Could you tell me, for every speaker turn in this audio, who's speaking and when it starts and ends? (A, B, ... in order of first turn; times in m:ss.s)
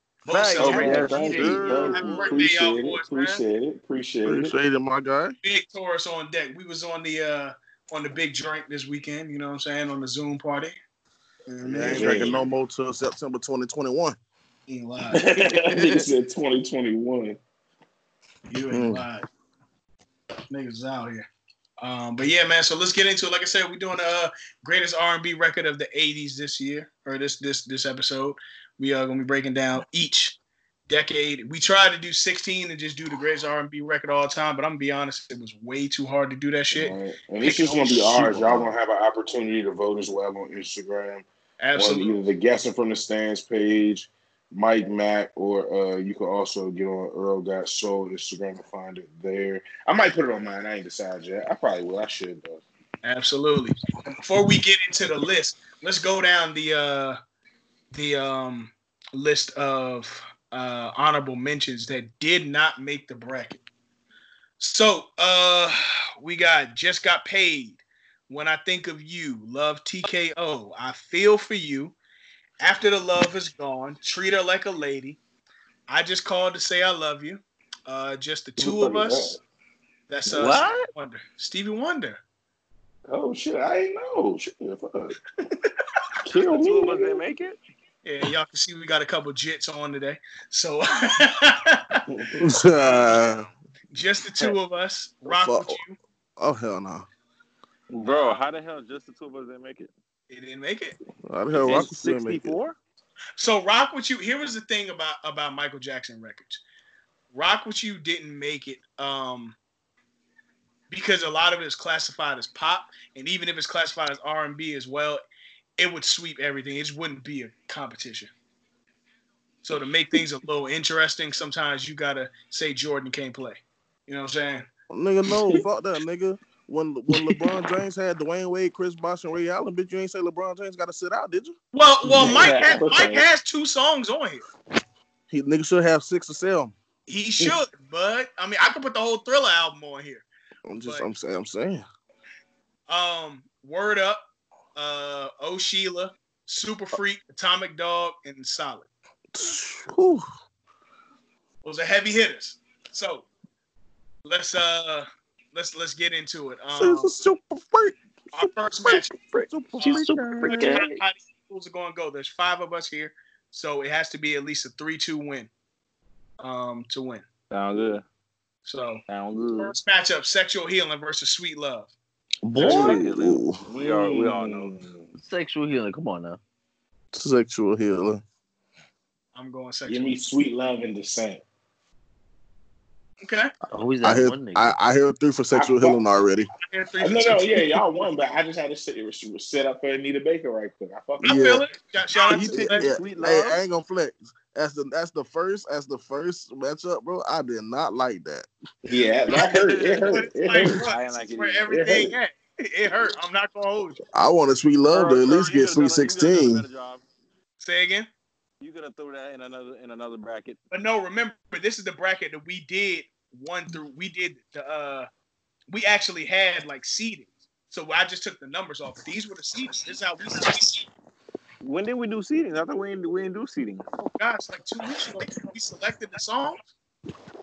0:00.2-0:03.4 A
0:00.3-0:01.4 B
0:00.6-0:02.4 C
0:00.6-0:02.1 D
0:00.6-0:04.6 E
0:04.2-0:05.3 D
0:05.4-0:10.7 A
0:11.4-0:12.3 A
0:11.6-0:14.2 D
0:11.8-0:12.5 E
0:14.7-0:16.0 A
0:15.1-0:17.4 E
0:18.5-0:19.2 A
0:18.7-0:19.0 D
0:20.5-0:21.3 A
0:21.8-0:30.4 A
0:30.9-0:38.4 A
0:36.7-0:52.6 E
0:41.6-0:42.2 A
0:53.0-0:57.2 A
0:57.9-1:03.6 A
1:04.6-1:11.9 A
1:12.6-1:15.2 A
1:15.9-1:19.4 A
1:18.6-1:19.4 E
1:20.1-1:22.2 A
1:20.4-1:20.8 B
1:23.1-1:25.2 E
1:26.2-1:27.2 E
1:26.2-1:27.6 C
1:28.0-1:32.0 A
1:32.1-1:32.4 E
1:32.4-1:33.5 D
1:33.9-1:36.0 A
1:35.3-1:35.8 D
1:36.4-1:37.0 D
1:37.9-1:39.9 C
1:40.3-1:41.0 A
1:41.2-1:42.6 D
1:41.5-1:42.8 C
1:43.4-1:46.6 A
1:47.3-1:49.6 A
1:50.9-1:55.2 A
1:55.8-1:58.3 A
1:59.6-2:04.7 A
2:04.9-2:11.6 D
2:11.7-2:14.4 A
2:12.0-2:13.3 E
2:15.3-2:16.7 D
2:17.1-2:20.3 A
2:20.6-2:21.8 D
2:22.9-2:28.9 A
2:29.3-2:30.2 D
2:31.6-2:33.3 A
2:34.2-2:37.1 A
2:36.7-2:40.8 D
2:38.3-2:39.2 A
2:39.8-2:45.5 A
2:39.9-2:40.8 B
2:46.4-2:47.2 A
2:47.5-2:48.0 C
2:48.6-2:49.0 A
2:49.1-2:49.7 C
2:49.6-2:51.9 A
2:52.4-2:53.6 D
2:52.6-2:54.8 C
2:52.6-2:52.9 E
2:53.7-2:55.1 E
2:55.1-2:56.4 B
2:57.1-2:58.2 D
2:59.3-3:00.1 A
2:59.9-3:01.4 E
3:03.2-3:03.5 A
3:03.7-3:04.8 B
3:04.0-3:06.5 D
3:05.5-3:06.0 E
3:06.6-3:07.5 A
3:07.0-3:11.6 E
3:11.2-3:11.6 D
3:11.2-3:12.9 A
3:12.3-3:18.5 D
3:12.3-3:13.6 C
3:18.8-3:20.8 E
3:19.3-3:20.0 C
3:20.1-3:24.0 A
3:20.8-3:21.7 C
3:21.7-3:22.2 E
3:24.1-3:26.6 D
3:24.9-3:27.0 C
3:27.6-3:28.1 A
3:28.6-3:30.6 C
3:30.7-3:35.1 A
3:35.7-3:40.8 A
3:41.6-3:43.8 C
3:44.0-3:46.6 A